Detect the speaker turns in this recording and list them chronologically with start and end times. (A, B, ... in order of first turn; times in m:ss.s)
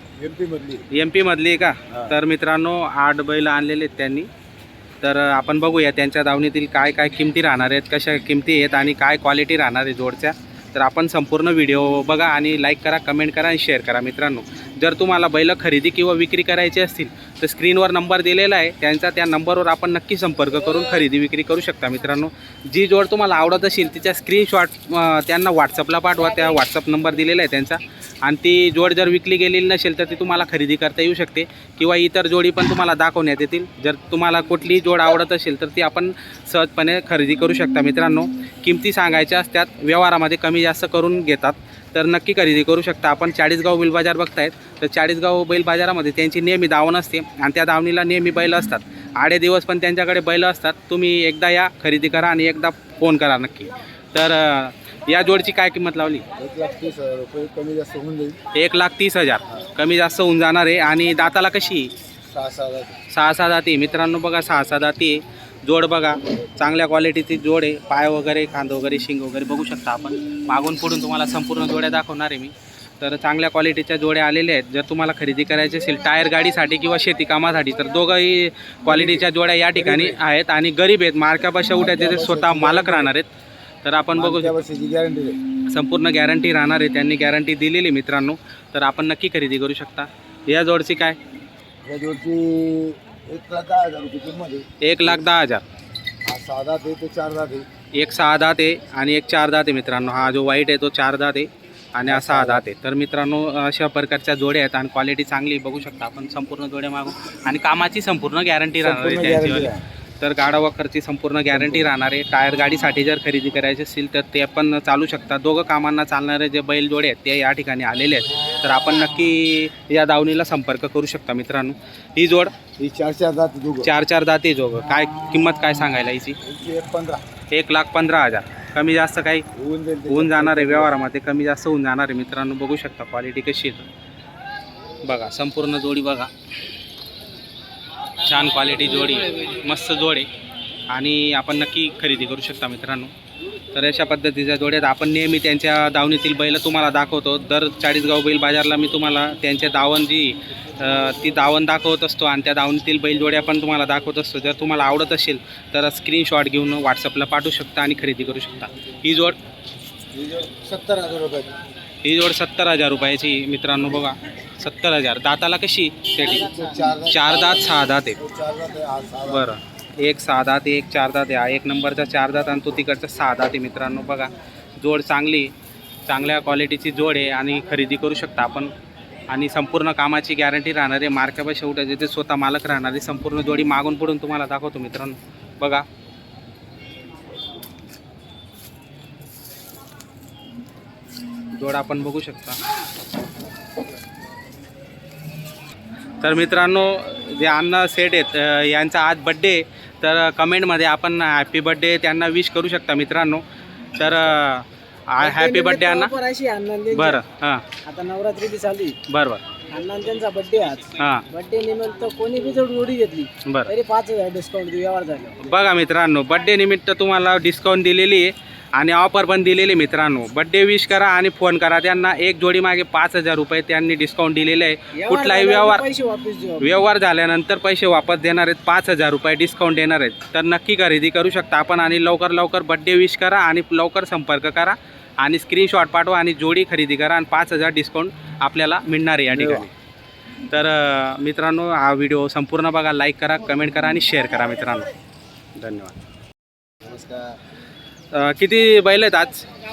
0:00.2-0:00.8 A
0:00.9-0:04.3 B
0:01.9-0:02.2 A
0:05.0-0:56.2 B
0:56.4-0:58.4 A
0:58.5-1:01.9 B
1:02.3-1:03.0 A
1:03.1-1:23.3 B
1:18.9-1:19.2 A
1:19.8-1:20.2 A
1:21.7-1:23.1 A
1:23.8-1:24.6 B
1:24.2-1:25.4 A
1:25.7-1:31.2 B
1:31.8-1:35.2 A
1:34.8-1:35.6 B
1:36.3-1:37.7 A
1:37.9-2:02.5 B
1:42.0-1:42.6 A
1:48.8-1:49.8 A
1:51.5-1:51.9 A
2:02.8-2:03.9 A
2:03.8-2:06.4 B
2:06.4-2:07.2 A
2:07.5-2:09.5 B
2:09.6-2:10.9 A
2:10.1-2:13.9 B
2:15.0-2:16.3 B
2:18.2-2:20.3 B
2:20.9-2:23.1 B
2:23.7-2:39.4 B
2:40.1-2:41.5 A
2:42.0-2:46.5 B
2:46.2-2:49.6 A
2:47.1-2:48.2 B
2:49.3-2:55.5 B
2:56.1-2:58.7 B
2:59.3-3:05.8 B
3:11.5-3:12.6 B
3:16.2-3:23.4 B
3:24.0-3:26.1 B
3:25.2-3:27.2 C
3:26.9-3:27.7 B
3:27.8-3:29.0 C
3:29.1-3:29.4 B
3:29.7-3:35.4 C
3:31.0-3:31.2 B
3:33.4-3:33.7 B
3:35.4-3:45.8 B
3:45.0-3:46.8 C
3:46.6-3:59.7 B
3:59.3-3:59.7 A
4:00.5-4:04.9 B
4:05.6-4:06.0 B
4:06.8-4:07.2 A
4:08.1-4:09.5 B